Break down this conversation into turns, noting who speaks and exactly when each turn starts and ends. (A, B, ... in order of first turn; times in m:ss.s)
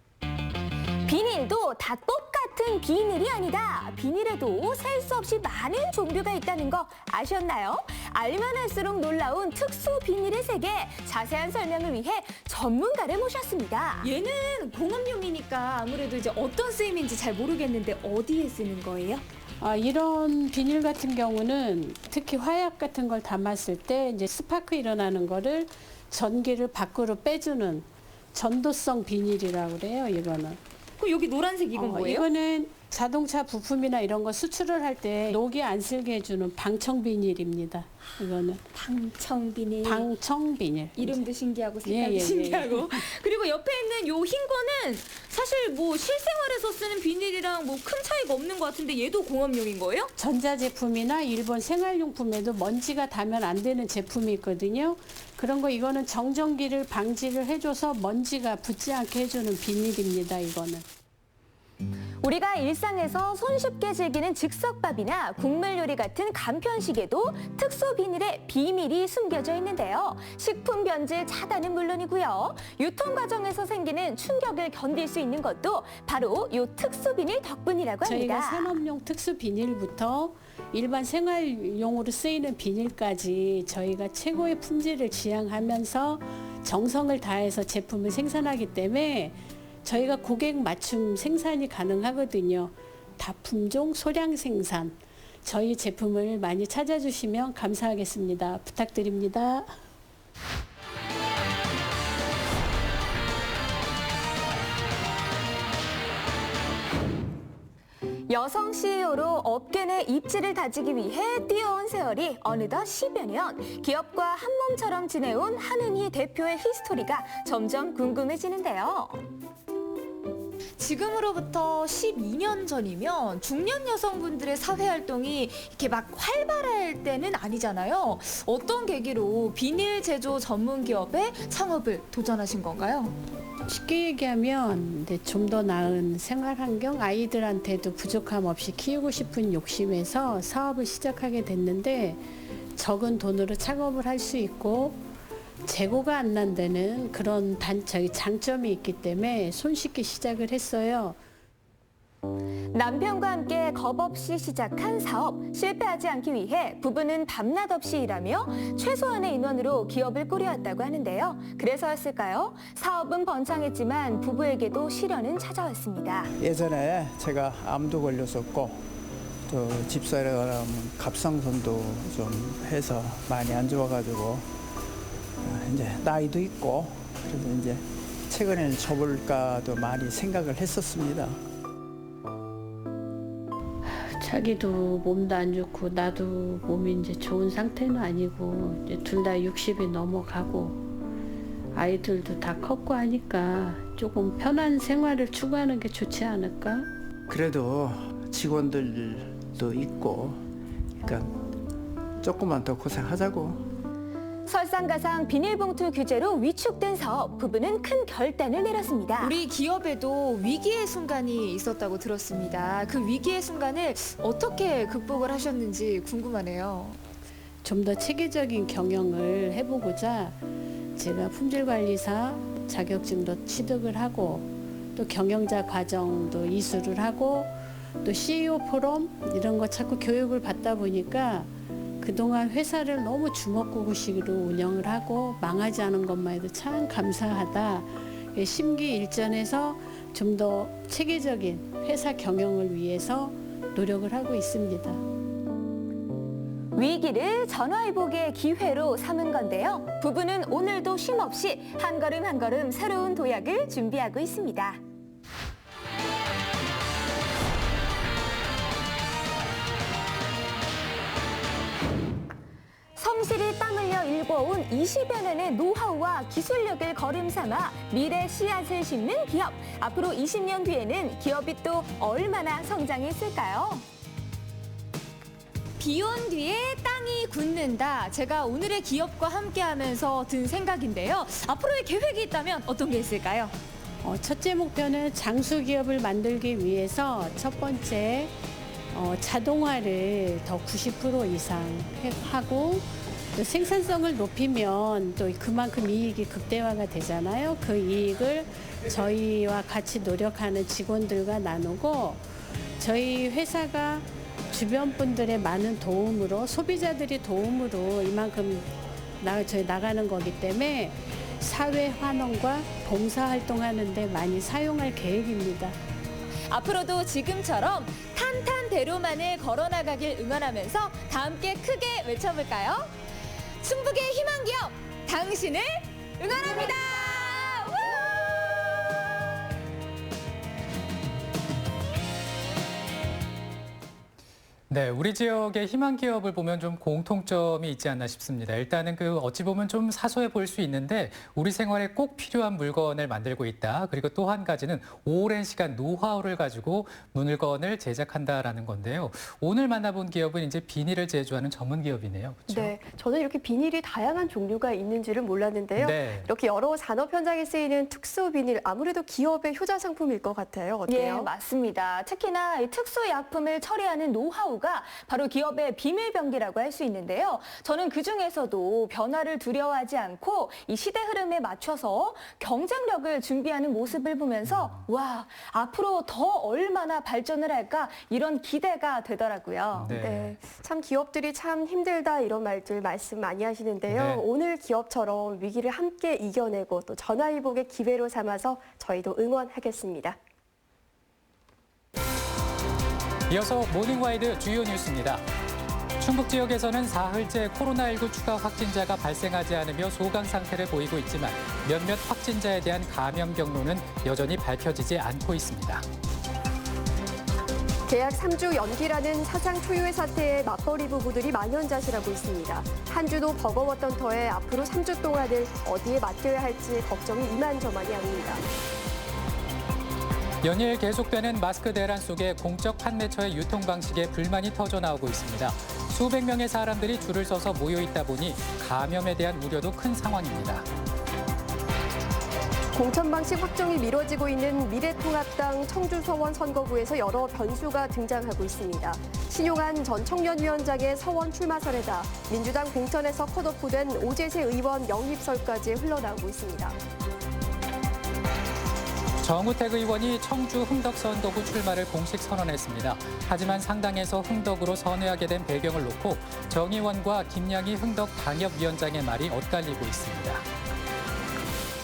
0:01.1-0:14.1 A
0:14.0-0:19.2 B
0:19.6-0:30.6 C
0:31.0-0:32.3 B
0:31.7-0:38.6 C
0:39.0-0:40.1 B
0:39.8-0:41.3 C
0:41.0-0:50.1 B
0:41.8-0:43.1 C
0:50.2-1:00.9 C
1:02.2-1:18.8 A
1:18.0-1:39.7 C
1:48.3-1:59.2 A
2:00.8-2:13.2 B
2:13.7-2:22.2 C
2:22.8-2:25.0 C
2:25.6-2:31.2 C
2:32.7-2:46.3 A
2:46.4-2:48.8 D
2:49.5-2:54.5 D
2:55.4-3:01.4 D
3:04.0-3:10.8 C
3:11.7-3:16.9 C
3:17.3-3:20.4 D
3:21.0-3:21.4 D
3:22.2-3:23.6 D
3:24.5-3:29.4 A
3:29.2-3:37.0 B
3:37.6-3:40.4 C
3:41.0-3:51.5 C
3:52.0-4:05.0 C
4:06.8-4:14.8 A
4:23.0-4:33.8 A
4:35.8-4:43.6 B
4:44.0-4:48.3 C
4:48.9-5:02.2 C
5:02.8-5:15.8 C
5:16.8-5:18.9 B
5:18.3-5:21.6 A
5:22.3-5:22.7 A
5:23.6-5:25.2 B
5:25.3-5:25.6 A
5:26.2-5:27.9 B
5:34.7-5:52.7 E
5:52.5-6:01.3 F
5:55.8-5:56.3 E
6:00.9-6:19.9 A
6:14.5-6:14.8 E
6:19.7-6:20.4 E
6:19.9-6:30.2 F
6:23.9-6:24.3 E
6:33.3-6:35.2 E
6:36.0-6:45.8 E
6:47.9-6:58.4 F
7:00.4-7:10.7 E
7:12.7-7:26.8 F
7:29.2-7:40.4 E